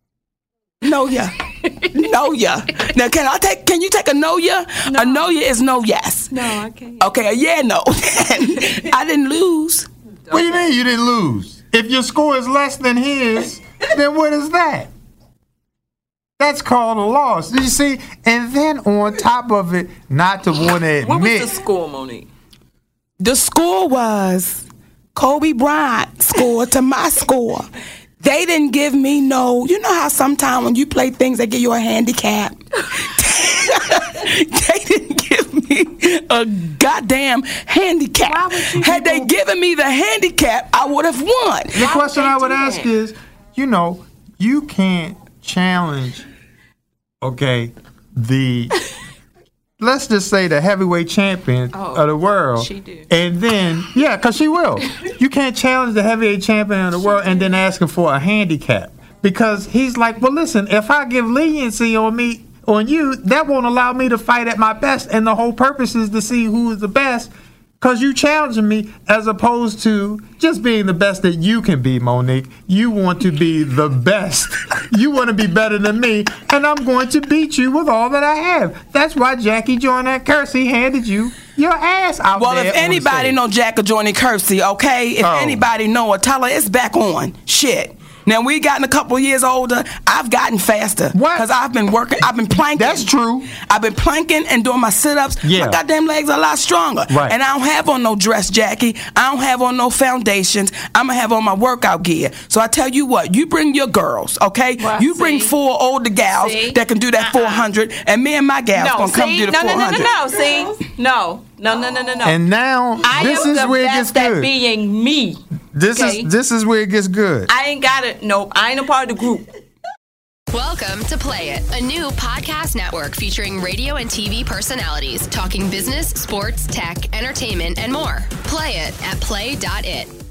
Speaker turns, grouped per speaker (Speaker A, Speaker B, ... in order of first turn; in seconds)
Speaker A: 0.8-9.9, 23.2-41.9, 82.3-110.2
Speaker B: 4.9-5.3, 6.3-7.1, 10.3-10.6, 21.0-22.3, 41.8-42.9, 51.7-53.1, 104.8-105.5, 106.3-107.6, 108.7-112.4, 113.0-115.4, 115.9-116.3, 117.5-119.5
Speaker C: 10.3-14.9, 16.4-21.5, 38.3-39.3, 41.8-46.3, 47.2-48.8, 49.8-83.4, 85.2-85.6, 91.1-91.5, 92.7-93.5, 95.4-95.8, 97.1-97.4, 112.2-114.5, 115.7-117.5
Speaker D: 120.5-130.1